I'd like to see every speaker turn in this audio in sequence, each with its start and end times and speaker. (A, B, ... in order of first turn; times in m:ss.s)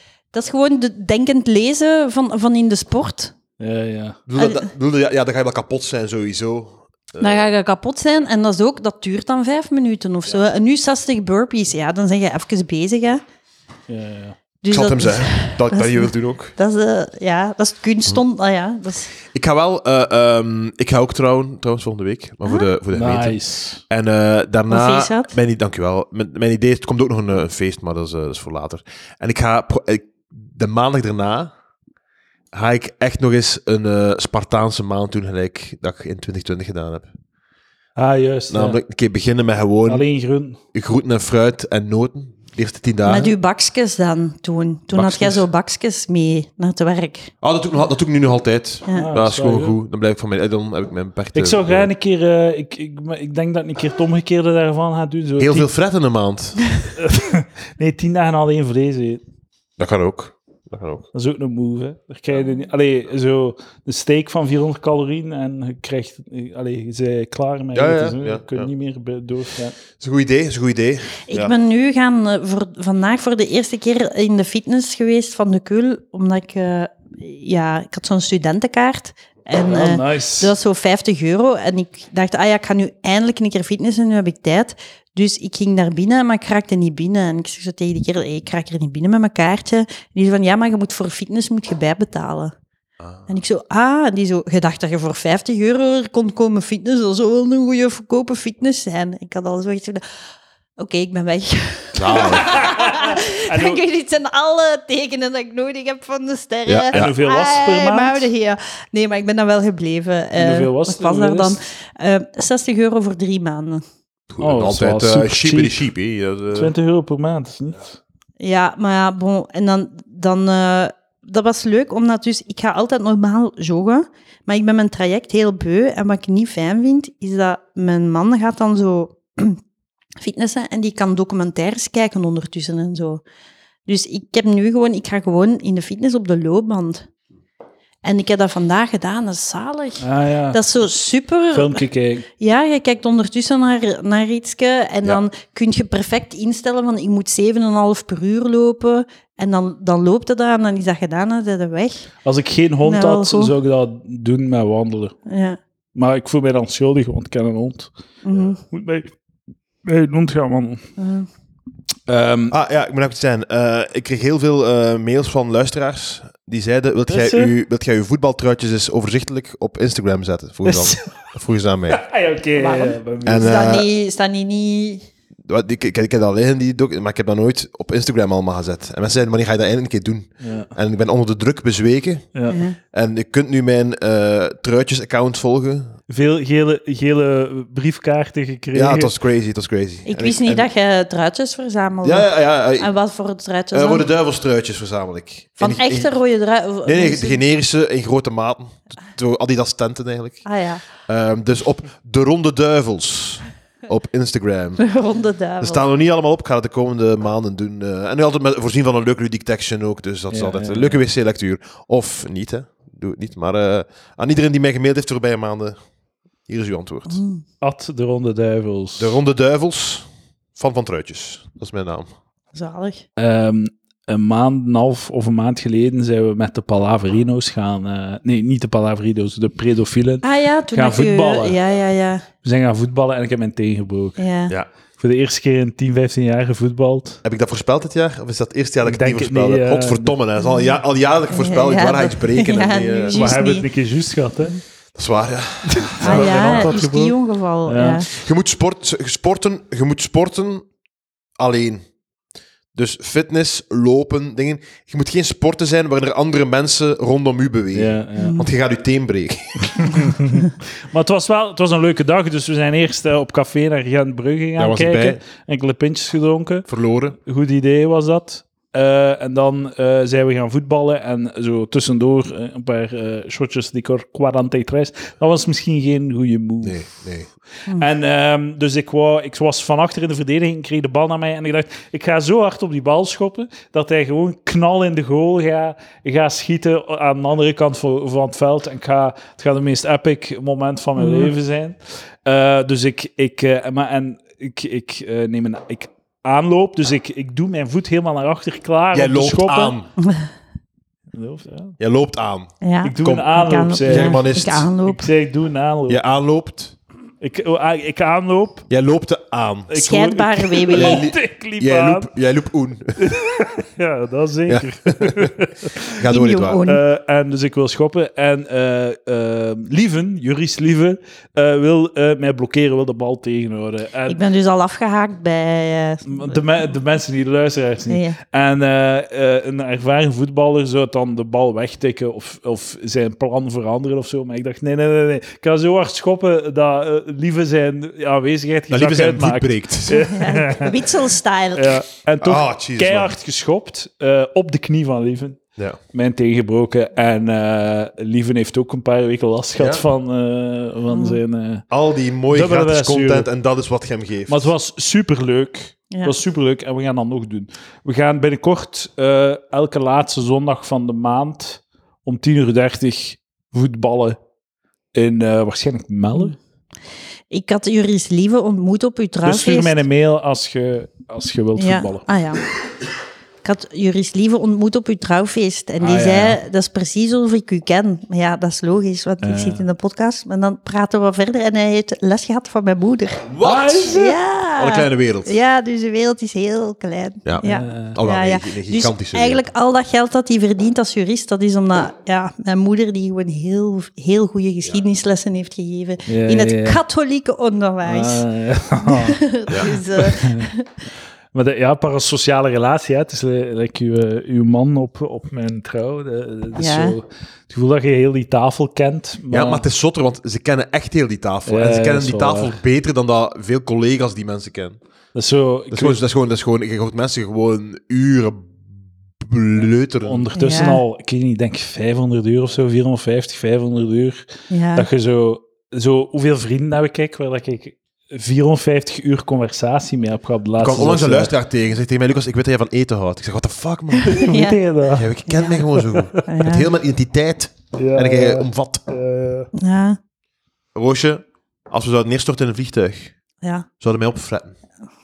0:00.3-0:03.3 A
0:03.6-0:04.2 B
0:04.3-0:07.5 C
0:04.4-0:04.7 A
0:07.2-0:13.2 A
0:13.9-0:14.4 B
0:14.6-0:19.1 A
0:14.7-0:16.5 C
0:19.3-0:23.4 C
0:22.9-0:23.8 B
0:23.9-0:31.5 C
0:24.7-0:25.3 A
0:32.5-0:37.1 C
0:38.0-0:38.8 B
0:38.5-0:40.0 C
0:39.9-0:40.6 B
0:40.7-0:43.3 C
0:43.0-0:47.3 A
0:44.9-0:45.4 C
0:47.4-0:51.9 C
0:48.9-0:49.8 B
0:51.3-0:55.7 B
0:55.4-0:56.6 C
0:57.0-0:59.2 B
0:59.8-1:01.0 C
1:01.1-1:09.8 B
1:07.7-1:08.7 C
1:10.0-1:11.5 C
1:11.3-1:32.5 A
1:19.7-1:20.5 B
1:33.0-1:33.3 C
1:33.3-1:40.0 A
1:40.8-1:53.8 A
1:41.9-1:42.5 C
1:42.2-1:43.8 B
1:46.7-1:47.1 C
1:46.9-1:48.3 B
1:50.4-1:51.6 B
1:54.3-1:56.7 C
1:54.4-1:55.8 B
1:56.5-1:58.0 B
1:58.4-2:09.6 A
2:10.2-2:13.2 A
2:13.8-2:17.1 A
2:18.0-2:21.8 A
2:20.0-2:20.6 B
2:21.5-2:22.3 B
2:22.4-2:32.1 A
2:32.2-2:35.1 B
2:32.8-2:33.5 A
2:35.3-2:35.6 A
2:35.9-2:37.9 B
2:38.2-2:38.6 A
2:38.7-2:39.1 B
2:39.8-2:40.8 B
2:41.0-2:41.3 A
2:42.1-2:42.5 B
2:42.5-2:52.0 C
2:47.1-2:47.5 B
2:50.6-2:51.1 B
2:51.9-2:53.5 B
2:52.6-2:55.0 A
2:53.2-2:53.8 C
2:55.4-3:02.2 C
3:00.4-3:00.7 B
3:02.5-3:02.8 A
3:02.9-3:05.9 C
3:06.1-3:09.1 B
3:08.7-3:10.7 C
3:10.0-3:14.0 A
3:12.0-3:12.9 C
3:13.7-3:16.1 C
3:15.6-3:17.4 A
3:16.8-3:20.4 C
3:20.4-3:20.8 A
3:21.0-3:24.9 C
3:24.8-3:25.9 A
3:25.6-3:35.8 C
3:30.3-3:31.0 B
3:36.5-3:37.2 C
3:37.1-3:37.4 A
3:37.6-3:39.1 B
3:39.0-3:42.1 C
3:42.5-3:43.0 A
3:43.2-3:51.6 B
3:50.2-3:52.2 A
3:52.4-3:54.2 B
3:54.2-3:54.6 A
3:55.0-3:57.2 B
3:57.2-4:03.2 C
3:58.8-4:00.1 B
4:01.3-4:03.6 A
4:03.1-4:04.6 B
4:04.9-4:06.8 C
4:05.7-4:08.0 B
4:06.0-4:08.1 A
4:08.1-4:10.7 C
4:11.4-4:11.8 C
4:12.7-4:20.1 C
4:17.7-4:18.4 B
4:18.2-4:18.4 A
4:19.8-4:26.7 B
4:24.6-4:25.2 C
4:26.7-4:27.2 C
4:27.2-4:36.9 B
4:36.6-4:37.3 C
4:37.7-4:59.8 B
4:51.0-4:51.3 A
4:58.9-4:59.9 C
5:00.0-5:00.3 A
5:01.1-5:01.8 B
5:01.8-5:03.2 C
5:02.6-5:05.1 A
5:02.8-5:04.3 B
5:03.8-5:04.7 C
5:04.8-5:06.0 B
5:05.9-5:06.7 C
5:07.2-5:08.6 B
5:08.7-5:09.7 C
5:09.7-5:12.1 B
5:09.7-5:11.1 A
5:10.7-5:13.2 C
5:13.0-5:15.9 B
5:14.5-5:15.3 C
5:15.9-5:16.6 C
5:16.0-5:16.8 A
5:16.6-5:24.2 B
5:24.1-5:26.4 A
5:26.1-5:40.9 B
5:27.9-5:28.2 A
5:38.7-5:40.0 C
5:39.9-5:41.8 A
5:41.6-5:45.4 B
5:42.2-5:43.1 C
5:45.9-5:51.6 B
5:49.6-5:49.8 C
5:50.9-5:51.2 A
5:51.7-5:54.5 C
5:52.3-5:53.3 B
5:54.3-6:04.2 B
5:55.9-5:56.2 A
6:04.9-6:06.4 B
6:07.3-6:09.8 A
6:09.2-6:12.0 B
6:11.6-6:12.4 A
6:13.4-6:23.2 A
6:15.8-6:16.4 B
6:19.2-6:19.6 B
6:23.3-6:23.9 C
6:23.4-6:24.2 B
6:23.9-6:38.2 A
6:24.6-6:25.3 C
6:27.2-6:29.5 C
6:27.4-6:28.0 B
6:36.1-6:36.8 B
6:37.8-6:39.2 B
6:38.8-6:40.7 A
6:39.9-6:40.5 B
6:41.3-6:49.6 B
6:46.6-6:47.0 A
6:49.3-6:54.8 C
6:51.5-6:52.6 B
6:55.1-6:56.0 B
6:55.7-6:58.5 C
6:59.2-7:00.3 C
7:00.0-7:11.3 B
7:00.3-7:00.8 A
7:04.5-7:04.9 A
7:10.6-7:14.2 C
7:13.9-7:14.6 A
7:14.0-7:15.1 B
7:14.9-7:18.8 C
7:15.3-7:16.7 A
7:15.9-7:16.2 B
7:17.7-7:19.5 B
7:19.5-7:20.0 A
7:20.7-7:23.1 C
7:23.8-7:24.5 C